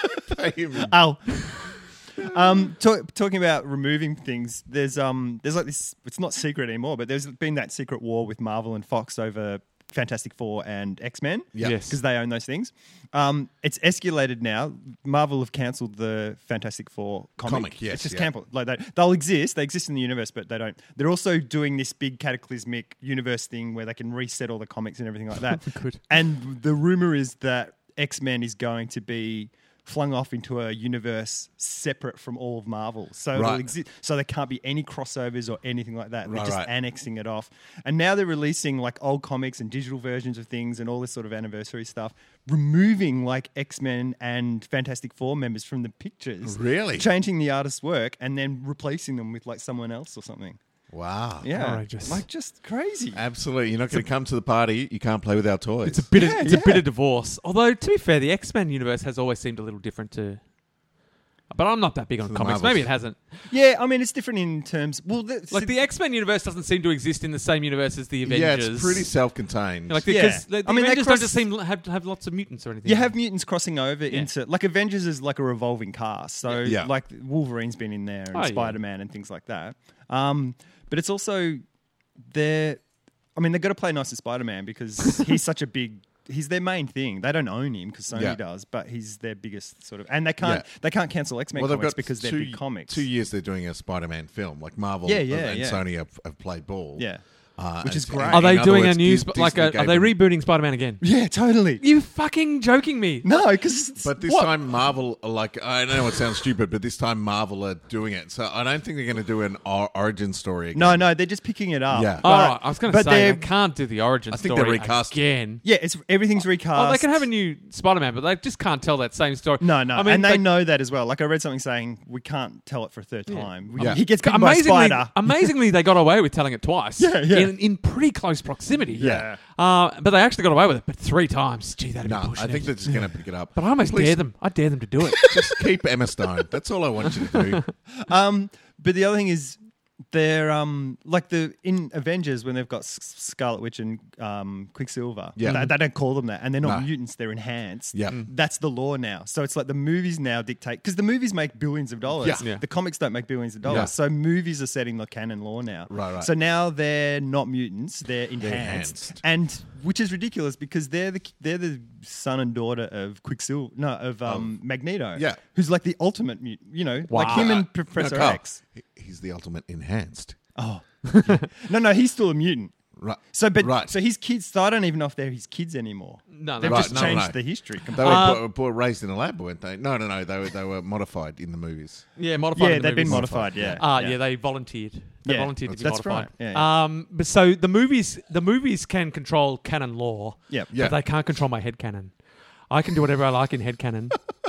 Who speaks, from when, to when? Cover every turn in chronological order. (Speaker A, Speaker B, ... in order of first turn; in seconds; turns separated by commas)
Speaker A: 0.2-0.9, Speaker B: 0.8-50.6, Speaker A: 11.5-11.8, Speaker C: 11.6-12.0, Speaker A: 17.4-18.3, Speaker C: 25.6-26.0, Speaker A: 33.3-33.7, Speaker A: 36.2-36.7, Speaker A: 46.4-47.0, Speaker A: 50.9-51.5, Speaker B: 51.4-53.2, Speaker C: 51.5-52.2, Speaker A: 53.1-56.0, Speaker C: 55.8-60.4, Speaker B: 56.1-56.8, Speaker C: 61.5-63.4, Speaker A: 62.2-62.9, Speaker B: 63.5-65.7, Speaker C: 65.5-69.1, Speaker A: 68.2-70.0, Speaker C: 69.9-73.1, Speaker B: 70.0-71.4, Speaker B: 72.8-81.6, Speaker A: 76.6-76.9, Speaker C: 78.3-78.8, Speaker B: 82.2-82.8, Speaker B: 83.3-93.0, Speaker A: 88.1-88.4, Speaker A: 90.4-90.7, Speaker A: 91.5-100.1, Speaker B: 95.0-95.8, Speaker B: 97.0-97.2, Speaker B: 97.8-98.5, Speaker C: 98.3-101.1, Speaker B: 101.0-101.8, Speaker C: 101.8-103.3, Speaker B: 103.2-104.2, Speaker A: 104.0-111.1, Speaker C: 104.2-104.5, Speaker B: 110.7-113.5, Speaker A: 111.9-112.2, Speaker C: 112.2-115.6, Speaker A: 114.3-115.2, Speaker B: 115.6-117.2, Speaker C: 116.7-120.5, Speaker B: 119.6-125.5, Speaker C: 123.3-135.5, Speaker A: 123.8-124.0, Speaker B: 127.0-127.5, Speaker B: 128.9-129.4, Speaker A: 129.0-129.3, Speaker A: 132.0-134.2, Speaker A: 135.2-137.6, Speaker B: 137.9-139.6, Speaker B: 140.1-168.6, Speaker A: 145.3-145.7, Speaker C: 145.4-145.7, Speaker A: 146.6-146.9, Speaker A: 147.9-148.2, Speaker A: 152.2-152.5, Speaker A: 153.6-153.9, Speaker A: 155.9-156.3, Speaker A: 158.4-159.2, Speaker A: 165.1-165.4, Speaker C: 167.1-167.5, Speaker A: 167.2-170.4, Speaker B: 170.6-172.7, Speaker C: 171.1-171.4, Speaker A: 173.0-173.9, Speaker B: 173.3-178.4, Speaker C: 176.3-177.3, Speaker A: 176.6-182.1, Speaker C: 177.9-178.4, Speaker C: 182.2-194.2, Speaker B: 182.5-184.2, Speaker A: 183.1-183.8, Speaker B: 185.2-186.7, Speaker A: 190.7-191.0